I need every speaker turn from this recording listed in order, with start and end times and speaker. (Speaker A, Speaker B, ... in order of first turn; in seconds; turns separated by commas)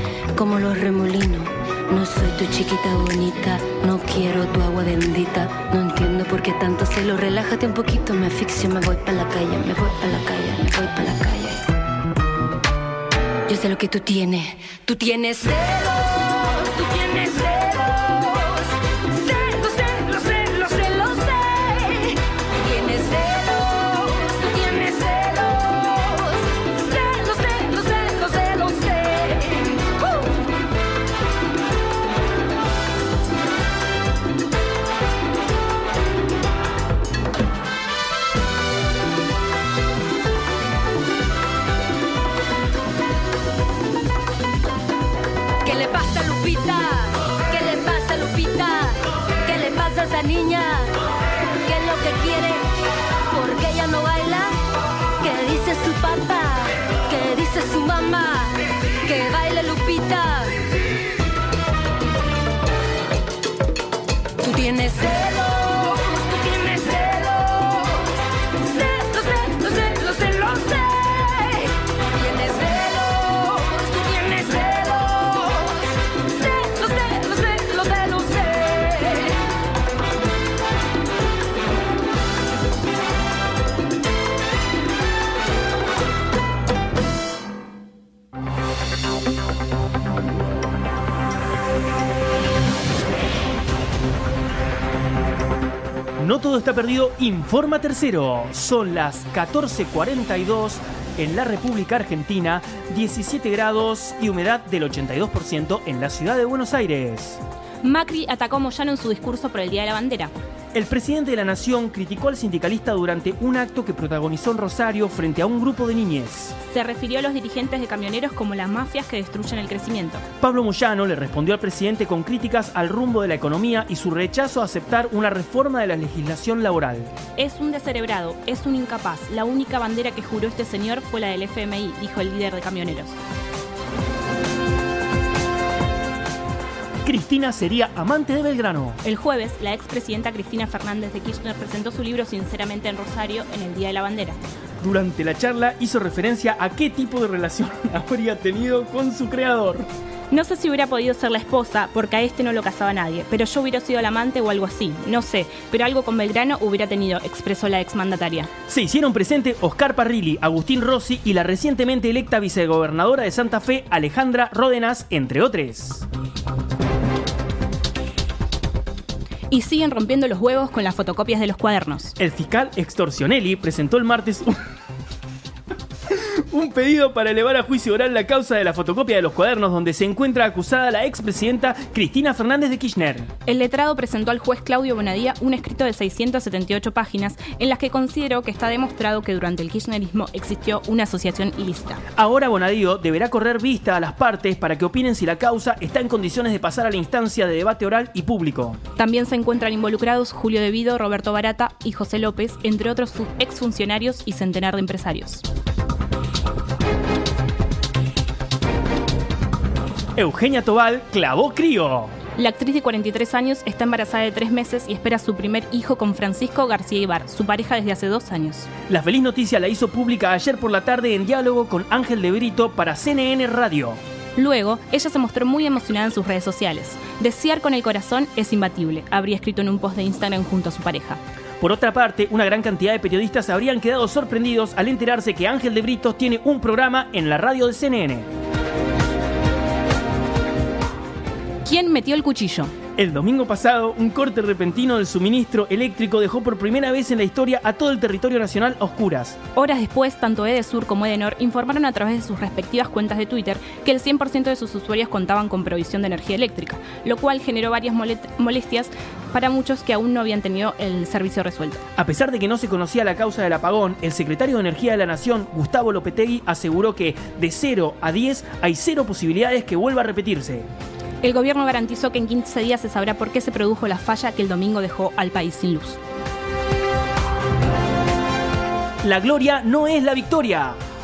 Speaker A: 0.3-11.6, Speaker A: 13.5-30.4, Speaker A: 45.6-50.9, Speaker A: 51.6-52.7, Speaker A: 53.3-54.7, Speaker A: 55.2-60.6, Speaker A: 64.4-79.5, Speaker B: 96.2-107.4, Speaker C: 107.8-110.3, Speaker B: 110.7-116.5, Speaker C: 116.6-120.2, Speaker B: 120.4-127.1, Speaker C: 127.4-133.2, Speaker B: 137.0-139.0, Speaker C: 139.0-144.4, Speaker B: 144.8-149.9, Speaker C: 150.3-158.5, Speaker B: 158.7-166.1, Speaker C: 169.5-172.1, Speaker B: 172.2-174.6, Speaker B: 176.1-183.3, Speaker C: 183.4-192.0, Speaker B: 192.2-198.8, Speaker C: 199.0-205.4, Speaker B: 210.2-212.1, Speaker C: 212.4-218.7, Speaker B: 218.9-224.0, Speaker C: 224.4-231.2, Speaker B: 231.6-238.3, Speaker C: 241.6-242.7, Speaker B: 243.0-249.4, Speaker C: 249.5-261.9, Speaker B: 262.0-270.7, Speaker C: 271.2-276.0, Speaker B: 279.0-280.8